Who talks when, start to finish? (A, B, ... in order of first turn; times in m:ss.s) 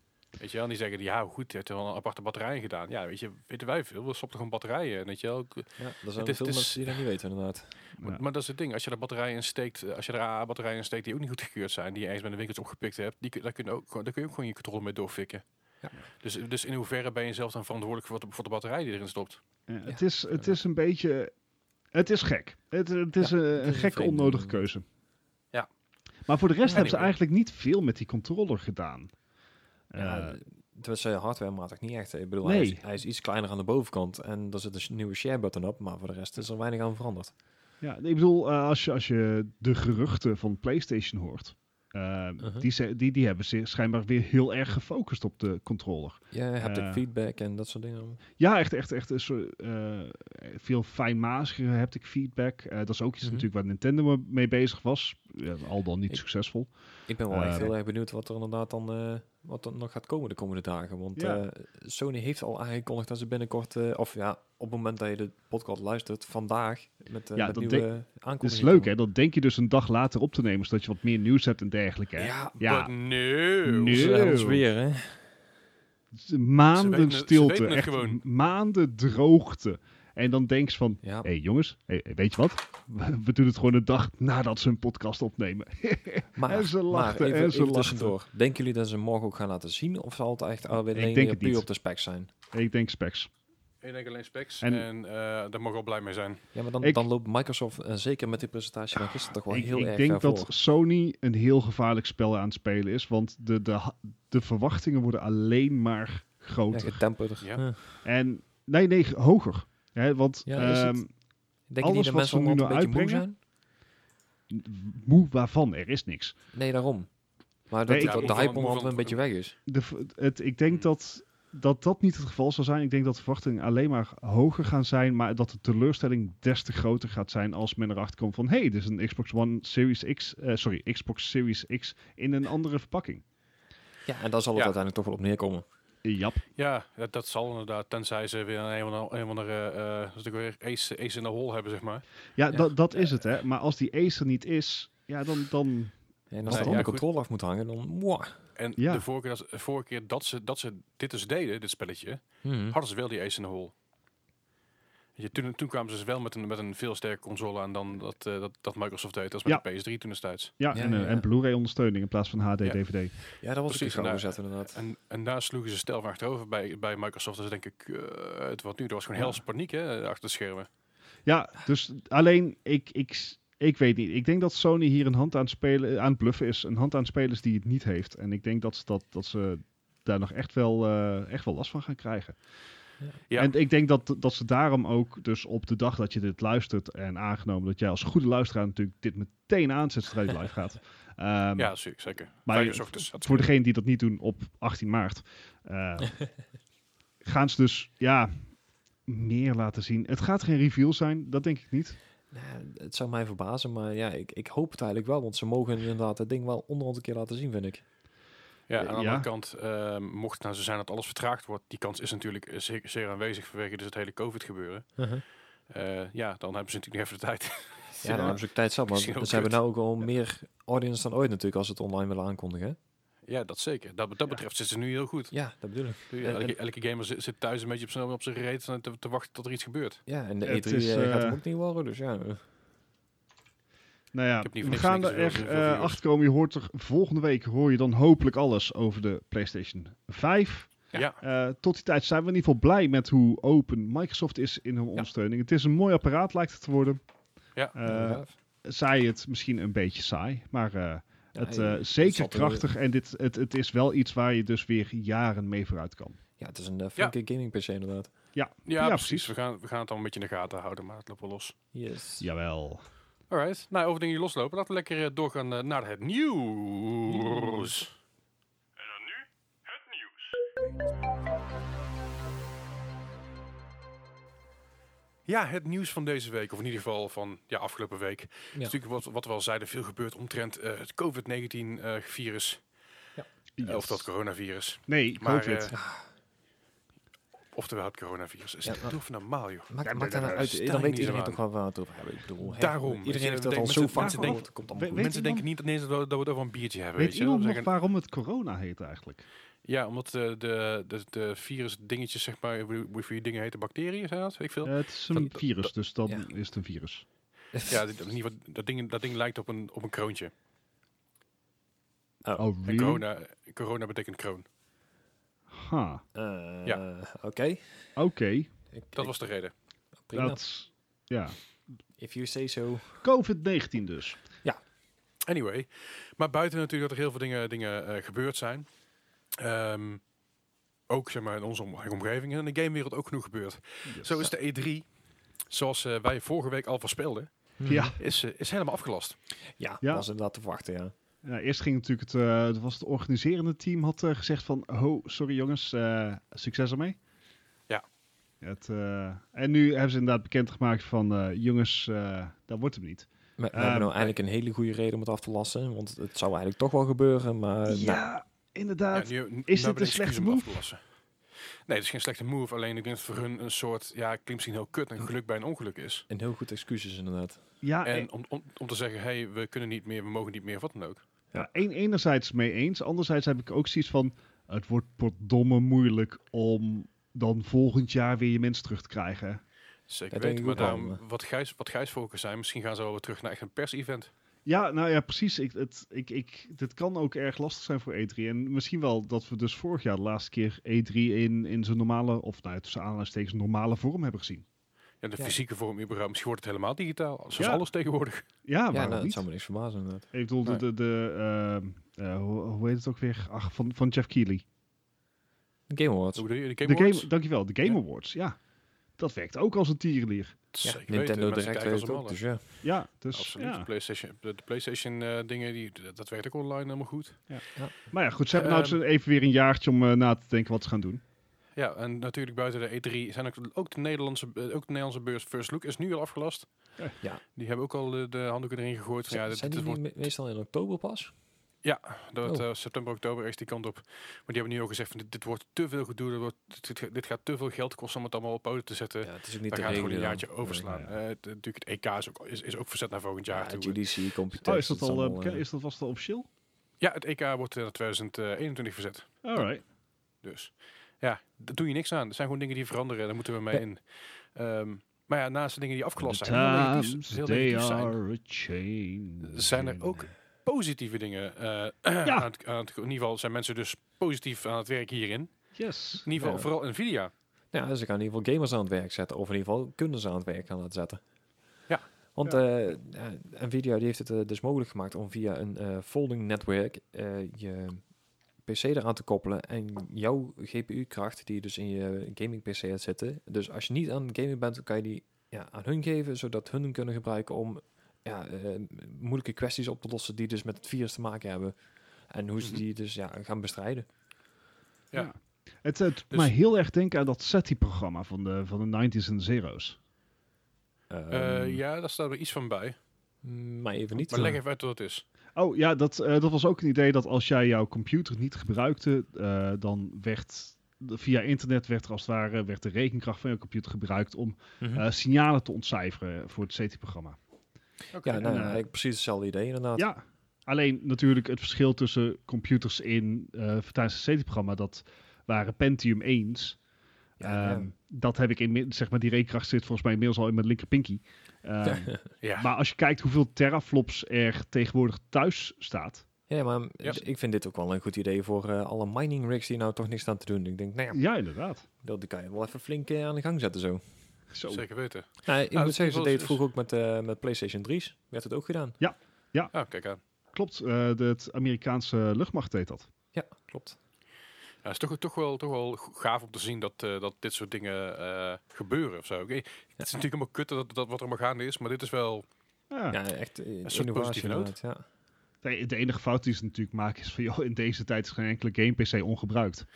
0:00.4-0:07.0 A
0:05.8-0:07.8 B
0:08.0-0:15.4 A
0:16.2-0:19.4 A
0:19.7-0:21.3 C
0:19.9-0:20.5 B
0:21.9-0:24.8 C
0:23.2-0:24.6 B
0:26.3-0:29.1 C
0:26.7-0:26.9 B
0:26.7-0:27.1 A
0:29.9-0:30.4 C
0:30.0-0:37.3 B
0:32.4-0:32.8 C
0:37.8-0:47.0 C
0:42.4-0:42.7 B
0:46.3-0:48.2 B
0:48.4-0:56.7 C
0:57.1-1:08.9 B
0:57.3-0:57.7 C
1:01.2-1:01.4 C
1:07.4-1:07.9 C
1:08.4-1:12.9 C
1:12.2-1:12.6 B
1:12.6-1:14.4 A
1:13.6-1:14.6 C
1:13.9-1:15.3 B
1:16.1-1:28.2 C
1:16.7-1:18.2 A
1:21.0-1:21.3 B
1:26.4-1:32.3 B
1:30.9-1:31.7 C
1:32.5-1:33.3 C
1:33.8-1:36.4 A
1:34.6-1:34.9 C
1:36.5-1:40.5 B
1:39.4-1:47.0 C
1:46.7-1:48.0 B
1:48.0-1:51.1 C
1:50.5-1:51.0 B
1:51.7-1:53.4 B
1:51.8-1:53.2 C
1:54.5-1:56.4 C
1:56.5-1:57.1 B
1:57.7-1:59.6 B
1:57.9-1:58.5 C
1:58.0-1:59.2 A
1:59.7-2:13.2 C
2:14.1-2:15.6 B
2:16.0-2:16.4 C
2:16.6-2:22.0 A
2:22.4-2:25.9 C
2:22.5-2:22.8 B
2:26.3-2:28.4 B
2:26.4-2:26.9 C
2:26.5-2:27.0 A
2:28.6-2:33.7 A
2:28.8-2:29.0 C
2:32.4-2:32.8 B
2:35.2-2:40.5 A
2:40.6-2:43.1 C
2:40.7-2:41.3 B
2:42.6-2:50.7 A
2:43.4-2:44.8 B
2:51.3-3:02.4 C
3:03.4-3:11.8 C
3:11.6-3:13.5 A
3:12.5-3:16.3 C
3:17.2-3:18.4 C
3:19.1-3:22.0 C
3:22.3-3:27.8 B
3:28.7-3:35.0 A
3:28.8-3:29.3 C
3:35.0-3:35.2 B
3:35.7-3:39.6 A
3:38.0-3:42.8 B
3:38.0-3:38.4 C
3:43.3-3:45.3 A
3:45.3-3:46.6 B
3:46.1-3:50.0 A
3:50.1-3:52.4 B
3:50.4-3:51.4 C
3:54.1-4:07.0 C
3:54.4-3:56.0 A
4:00.9-4:01.2 A
4:07.7-4:16.2 C
4:07.8-4:08.3 B
4:11.4-4:12.6 B
4:16.4-4:18.1 B
4:18.3-4:19.3 C
4:18.7-4:21.6 A
4:21.7-4:22.3 B
4:22.2-4:22.8 C
4:23.3-4:27.9 A
4:28.8-4:30.4 A
4:35.3-4:42.6 A
4:43.6-4:44.1 C
4:43.6-4:45.7 A
4:44.9-4:45.7 C
4:45.7-4:46.1 B
4:47.5-4:49.7 A
4:48.6-4:49.0 B
4:49.7-4:55.1 B
4:49.9-4:50.6 C
4:50.2-4:51.4 A
4:52.4-4:57.7 A
4:53.9-4:55.5 C
4:57.0-4:59.2 C
4:59.6-5:05.4 A
5:04.6-5:07.0 C
5:07.7-5:10.3 A
5:12.4-5:13.0 C
5:12.6-5:14.5 A
5:15.5-5:16.0 C
5:16.2-5:17.6 B
5:18.0-5:18.5 C
5:18.7-5:19.2 B
5:19.0-5:19.5 A
5:20.1-5:20.4 B
5:20.1-5:21.4 C
5:22.0-5:23.0 B
5:23.0-5:24.2 C
5:25.3-5:28.7 A
5:29.4-5:30.0 A
5:30.9-5:34.8 A
5:33.9-5:34.2 C
5:35.5-5:37.3 A
5:37.6-5:38.0 B
5:37.7-5:38.0 C
5:38.0-5:39.2 A
5:39.6-5:40.9 B
5:39.8-5:40.1 C
5:41.2-5:47.0 C
5:48.4-5:54.0 C
5:53.4-5:58.0 B
5:57.7-6:00.7 C
5:58.9-6:00.8 A
6:01.7-6:06.1 A
6:06.1-6:07.4 B
6:07.6-6:08.1 C
6:07.8-6:11.0 A
6:11.4-6:19.4 C
6:19.9-6:24.1 A
6:20.1-6:21.0 B
6:24.5-6:34.4 C
6:35.0-6:38.2 A
6:37.4-6:37.6 C
6:38.5-6:39.2 C
6:38.7-6:40.1 B
6:40.1-6:44.4 C
6:45.7-6:46.2 B
6:46.2-6:47.1 A
6:46.6-6:48.4 C
6:49.0-6:50.4 C
6:50.5-6:52.2 A
6:50.6-6:52.4 B
6:52.6-6:53.7 C
6:53.1-6:57.2 A
6:57.3-7:01.0 C
6:58.3-6:58.8 A
7:01.6-7:06.5 A
7:07.4-7:09.8 A
7:09.1-7:11.1 B
7:11.6-7:23.8 A
7:19.0-7:20.6 B
7:20.6-7:20.9 C
7:23.3-7:25.4 B
7:24.4-7:26.3 C
7:26.8-7:29.5 A
7:29.2-7:29.6 C
7:30.2-7:33.8 A
7:34.3-7:38.0 A
7:36.0-7:40.0 C
7:39.2-7:45.3 A
7:45.6-7:46.1 C
7:46.0-7:47.1 A
7:46.2-7:46.5 B
7:47.5-7:51.0 B
7:52.2-7:57.8 B
7:58.5-8:11.5 B
8:12.1-8:13.9 B
8:14.9-8:19.8 C
8:20.9-8:21.6 B
8:21.1-8:22.8 A
8:23.2-8:24.4 B
8:24.1-8:25.0 A
8:25.4-8:37.2 C
8:37.9-8:38.3 A
8:38.0-8:39.9 B
8:38.2-8:38.6 C
8:39.8-8:46.6 C
8:47.2-8:47.7 B
8:47.2-8:56.0 C
8:51.7-8:52.0 B
8:52.2-8:52.5 A
8:56.3-9:01.0 B
9:00.9-9:01.7 C
9:01.8-9:03.8 B
9:04.3-9:04.6 C
9:04.5-9:06.4 A
9:05.2-9:08.8 B
9:08.8-9:09.5 C
9:09.5-9:10.0 A
9:10.3-9:12.9 C
9:13.1-9:13.8 B
9:14.6-9:22.3 A
9:22.7-9:23.0 C
9:22.9-9:24.8 B
9:23.6-9:24.5 A
9:25.4-9:29.7 C